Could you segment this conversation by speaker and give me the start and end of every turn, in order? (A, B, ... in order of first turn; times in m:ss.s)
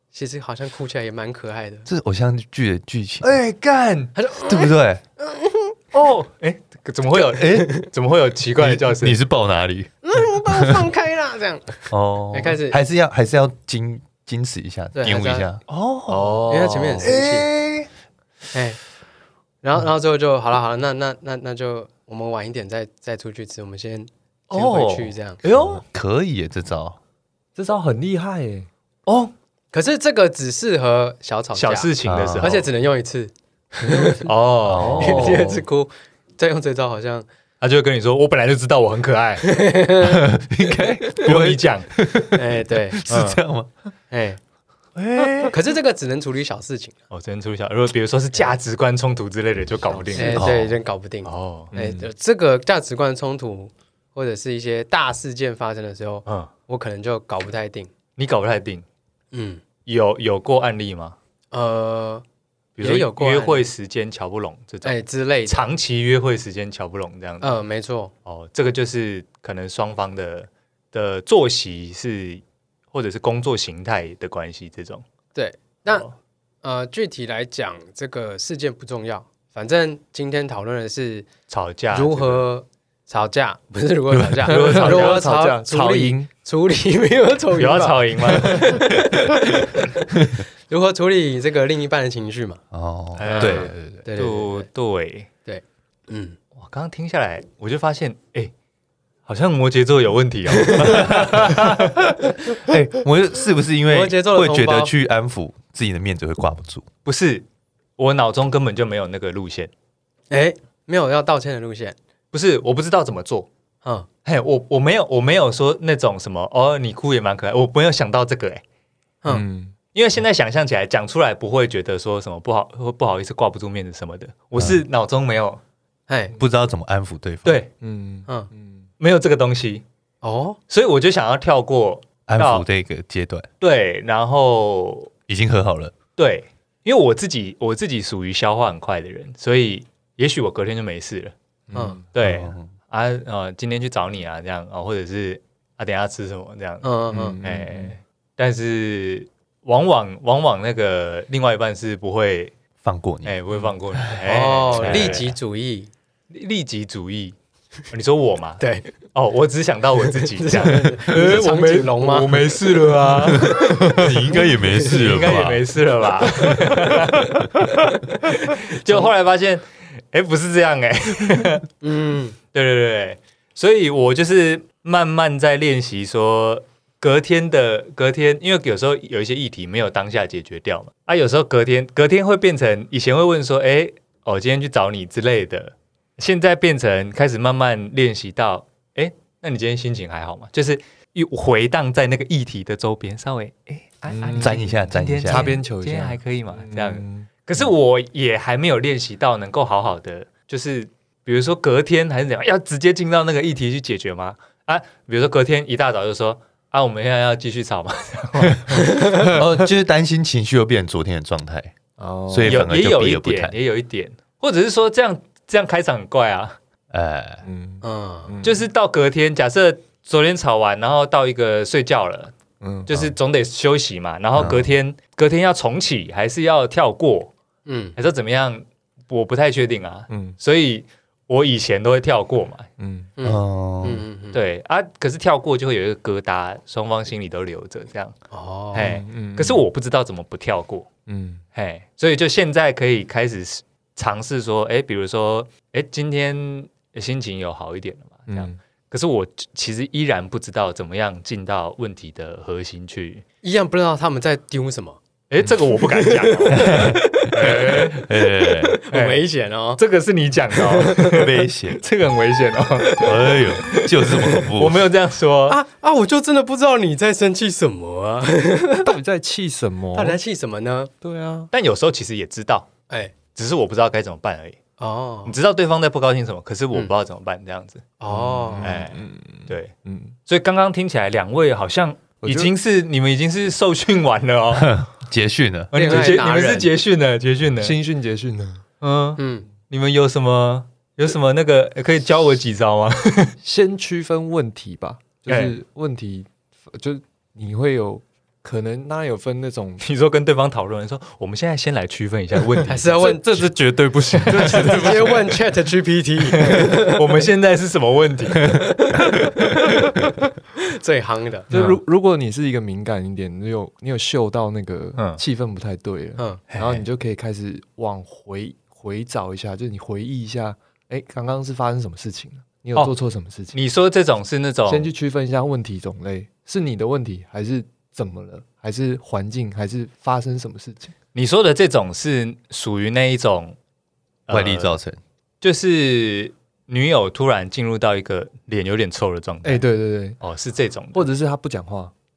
0:00.1-0:01.9 A
0:01.9-0:03.3 B
0:03.2-0:04.1 C
0:04.2-0:05.8 A
0:04.5-0:05.0 B
0:05.9-0:09.2 C
0:07.4-0:07.7 B
0:07.4-0:07.9 A
0:08.6-0:09.9 B
0:10.0-0:12.8 A
0:10.5-0:10.8 B
0:11.9-0:16.4 B
0:15.0-0:15.5 A
0:15.7-0:16.2 C
0:16.1-0:17.1 D
0:16.5-0:17.5 A
0:17.0-0:17.9 B
0:18.5-0:18.8 A
0:19.6-0:25.4 A
0:24.5-0:25.8 C
0:25.4-0:27.0 B
0:27.6-0:28.7 D
0:29.1-0:29.3 C
0:29.7-0:34.2 A
0:31.5-0:32.7 C
0:32.0-0:32.6 B
0:33.8-0:35.6 D
0:34.2-0:35.4 C
0:34.7-0:35.5 B
0:35.0-0:37.3 A
0:37.6-0:39.5 C
0:39.4-0:40.2 A
0:40.0-0:43.7 B
0:41.1-0:41.9 C
0:42.3-0:43.0 A
0:43.1-0:43.4 C
0:44.1-0:44.4 A
0:45.0-0:45.6 B
0:45.5-0:47.0 A
0:47.1-0:50.6 C
0:50.1-0:57.9 A
0:50.2-0:50.8 B
0:51.2-0:51.7 C
0:51.7-0:52.0 D
0:56.3-0:56.5 C
0:58.2-0:58.8 C
0:59.3-0:59.6 A
0:59.9-1:01.2 C
1:01.5-1:02.2 A
1:02.8-1:05.0 C
1:02.8-1:03.7 A
1:04.8-1:05.7 A
1:05.5-1:07.6 C
1:07.4-1:08.1 A
1:08.3-1:15.0 C
1:15.4-1:16.1 A
1:16.6-1:21.3 A
1:21.5-1:22.5 C
1:21.9-1:30.0 A
1:24.1-1:24.4 B
1:24.5-1:25.3 C
1:24.5-1:26.3 D
1:27.6-1:28.9 C
1:30.7-1:32.6 A
1:32.7-1:33.7 B
1:33.2-1:35.3 C
1:33.2-1:34.7 A
1:35.5-1:36.4 A
1:36.6-1:38.5 C
1:39.3-1:42.1 C
1:40.6-1:41.0 A
1:40.8-1:46.9 B
1:43.9-1:44.9 A
1:47.0-1:47.4 C
1:48.0-1:49.7 C
1:50.3-1:52.0 A
1:52.3-1:53.5 C
1:54.2-1:58.6 C
1:59.3-1:59.8 D
1:59.9-2:05.6 C
2:06.1-2:06.4 A
2:06.4-2:07.6 B
2:07.4-2:07.7 C
2:07.8-2:08.9 D
2:09.0-2:09.8 C
2:10.2-2:10.6 A
2:10.7-2:12.7 C
2:12.3-2:13.5 B
2:13.6-2:15.1 C
2:15.3-2:15.9 B
2:16.2-2:21.3 C
2:21.7-2:22.0 D
2:21.7-2:22.0 A
2:22.1-2:26.9 C
2:22.2-2:22.7 B
2:26.8-2:27.4 A
2:27.1-2:28.0 D
2:27.4-2:32.6 C
2:32.8-2:33.4 B
2:33.2-2:35.4 C
2:34.2-2:35.9 A
2:36.3-2:37.4 C
2:37.9-2:51.7 C
2:38.6-2:38.9 A
2:40.2-2:42.4 A
2:43.4-2:45.6 B
2:48.7-2:49.1 A
2:51.8-2:52.4 A
2:52.5-3:29.0 C
3:14.1-3:14.6 D
3:14.4-3:15.5 B
3:15.2-3:17.3 D
3:28.8-3:29.2 A
3:29.1-3:31.7 B
3:32.0-3:32.7 D
3:32.3-3:33.6 B
3:32.4-3:36.6 C
3:36.9-3:37.4 B
3:37.4-3:38.6 D
3:37.8-3:38.4 A
3:38.4-3:42.3 C
3:42.6-3:43.0 D
3:42.9-3:47.3 C
3:44.4-3:44.7 B
3:47.7-3:48.0 A
3:48.0-3:52.7 C
3:50.1-3:50.4 D
3:52.8-3:53.1 D
3:53.2-3:54.4 A
3:53.2-3:54.1 B
3:54.3-3:58.2 C
3:58.3-3:58.8 A
3:58.7-4:00.9 C
3:58.7-3:59.6 D
4:01.1-4:01.4 D
4:01.6-4:13.2 C
4:08.3-4:08.6 D
4:13.4-4:15.0 A
4:15.3-4:18.1 C
4:15.8-4:19.8 A
4:16.5-4:18.8 B
4:18.9-4:19.2 C
4:19.8-4:25.6 C
4:20.5-4:21.2 A
4:21.0-4:21.8 B
4:22.8-4:23.1 A
4:23.0-4:24.8 B
4:25.5-4:28.9 A
4:28.8-4:30.2 D
4:29.9-4:30.9 A
4:31.0-4:31.5 D
4:31.5-4:32.7 C
4:32.9-4:33.2 A
4:33.4-4:34.6 C
4:34.8-4:35.4 A
4:35.3-4:37.8 C
4:38.0-4:38.8 A
4:38.1-4:40.2 D
4:38.6-4:39.7 C
4:40.3-4:44.9 C
4:42.2-4:42.5 D
4:44.6-4:46.0 B
4:45.7-4:47.8 C
4:45.7-4:46.7 A
4:47.6-4:48.6 D
4:48.8-4:53.3 C
4:49.2-4:49.5 A
4:53.4-4:59.8 D
4:55.3-4:55.6 C
4:59.8-5:03.4 C
5:02.7-5:03.4 A
5:03.0-5:03.6 D
5:03.7-5:04.4 B
5:04.1-5:05.2 C
5:04.1-5:05.4 D
5:04.5-5:07.2 A
5:06.3-5:08.6 C
5:08.9-5:09.8 A
5:10.6-5:11.5 A
5:11.5-5:11.8 C
5:11.5-5:23.6 D
5:15.0-5:15.2 C
5:16.5-5:16.8 C
5:23.5-5:24.9 C
5:24.7-5:30.9 D
5:31.2-5:33.6 C
5:34.3-5:34.8 C
5:34.3-5:35.0 B
5:35.4-5:39.6 C
5:39.4-5:40.2 D
5:40.2-5:41.1 C
5:40.9-5:41.9 D